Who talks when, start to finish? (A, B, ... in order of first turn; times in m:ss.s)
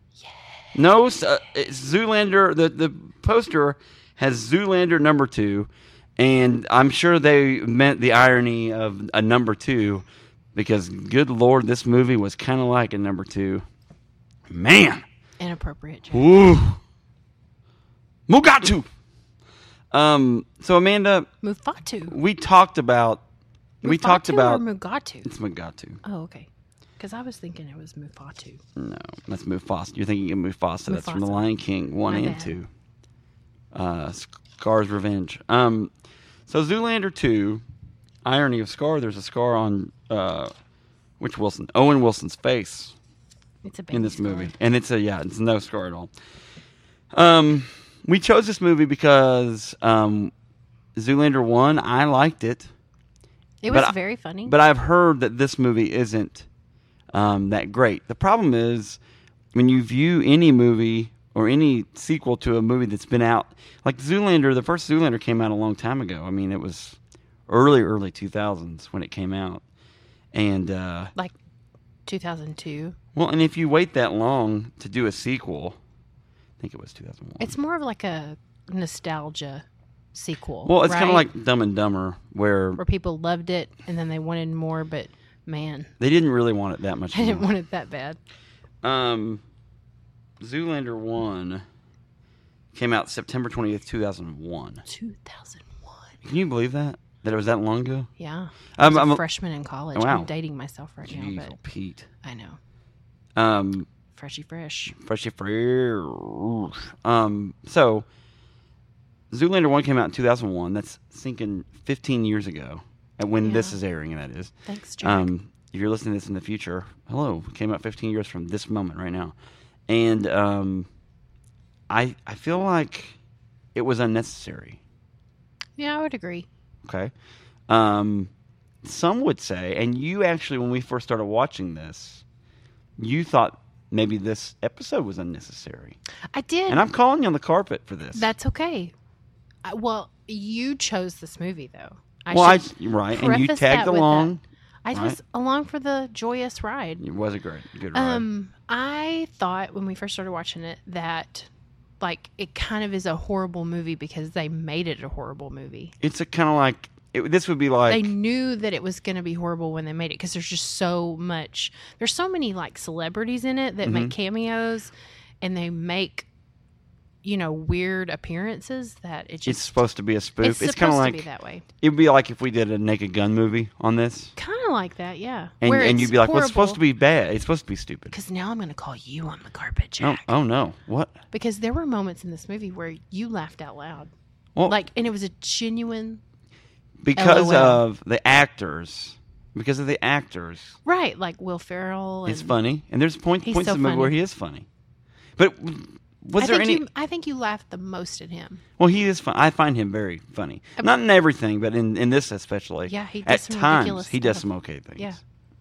0:00.2-0:00.5 A
0:00.7-0:13.6 B
0:14.5-0:15.0 B
0:15.4-0:16.3 A
0:16.1-0:16.8 B
0:18.3-0:18.9 B
0:19.9-0:21.3 B
0:21.4-0:22.1 A
0:22.0-0:23.2 B
0:23.8-0:25.3 A
0:23.8-0:24.6 B
0:25.2-0:26.0 B
0:26.0-0:28.6 A
0:28.8-0:32.7 B
0:30.9-0:31.4 A
0:32.1-0:32.6 A
0:33.7-0:35.9 B
0:36.5-0:37.6 B
0:38.2-0:40.5 B
0:41.2-0:42.9 B
0:43.6-0:44.5 A
0:43.9-0:46.1 B
0:47.1-0:50.3 B
0:51.0-0:52.7 B
0:53.6-0:54.6 A
0:53.7-0:53.9 B
0:54.4-0:56.4 B
0:57.1-0:59.0 B
0:59.5-1:09.6 B
1:10.3-1:11.1 B
1:12.0-1:13.0 A
1:13.1-1:15.8 B
1:16.6-1:17.5 B
1:17.4-1:21.3 A
1:20.6-1:22.8 B
1:22.8-1:25.9 A
1:26.0-1:27.5 B
1:27.1-1:28.2 A
1:28.8-1:29.4 B
1:30.4-1:31.6 B
1:32.7-1:34.8 B
1:34.8-1:36.1 A
1:36.2-1:38.1 B
1:38.2-1:41.6 A
1:38.8-1:39.2 B
1:39.9-1:40.3 B
1:41.0-1:42.1 B
1:42.2-1:42.6 A
1:43.4-1:43.9 B
1:44.1-1:44.9 A
1:44.9-1:48.0 B
1:49.3-1:59.3 B
1:53.4-1:53.8 A
1:54.7-1:55.3 A
1:59.9-2:00.9 B
2:01.9-2:03.2 B
2:03.7-2:04.8 B
2:05.8-2:06.5 A
2:06.8-2:07.1 B
2:07.7-2:08.3 B
2:08.8-2:12.2 B
2:13.0-2:16.0 B
2:16.3-2:16.8 A
2:16.7-2:18.3 B
2:18.1-2:18.9 A
2:19.6-2:24.3 A
2:22.3-2:24.4 B
2:24.8-2:27.0 A
2:27.0-2:28.2 B
2:27.9-2:35.9 A
2:36.0-2:38.1 B
2:37.9-2:46.3 A
2:43.8-2:44.1 B
2:47.2-2:49.7 A
2:49.4-2:51.2 B
2:50.4-2:51.6 A
2:51.8-2:54.3 B
2:54.4-2:56.8 A
2:55.6-2:58.1 B
2:58.1-3:00.3 A
3:00.0-3:01.2 B
3:01.3-3:04.1 A
3:04.6-3:06.2 A
3:07.0-3:10.8 B
3:07.2-3:07.8 A
3:10.8-3:12.6 A
3:12.2-3:14.7 B
3:13.4-3:14.1 A
3:15.4-3:16.8 B
3:16.4-3:18.6 A
3:18.8-3:25.2 B
3:22.9-3:24.4 A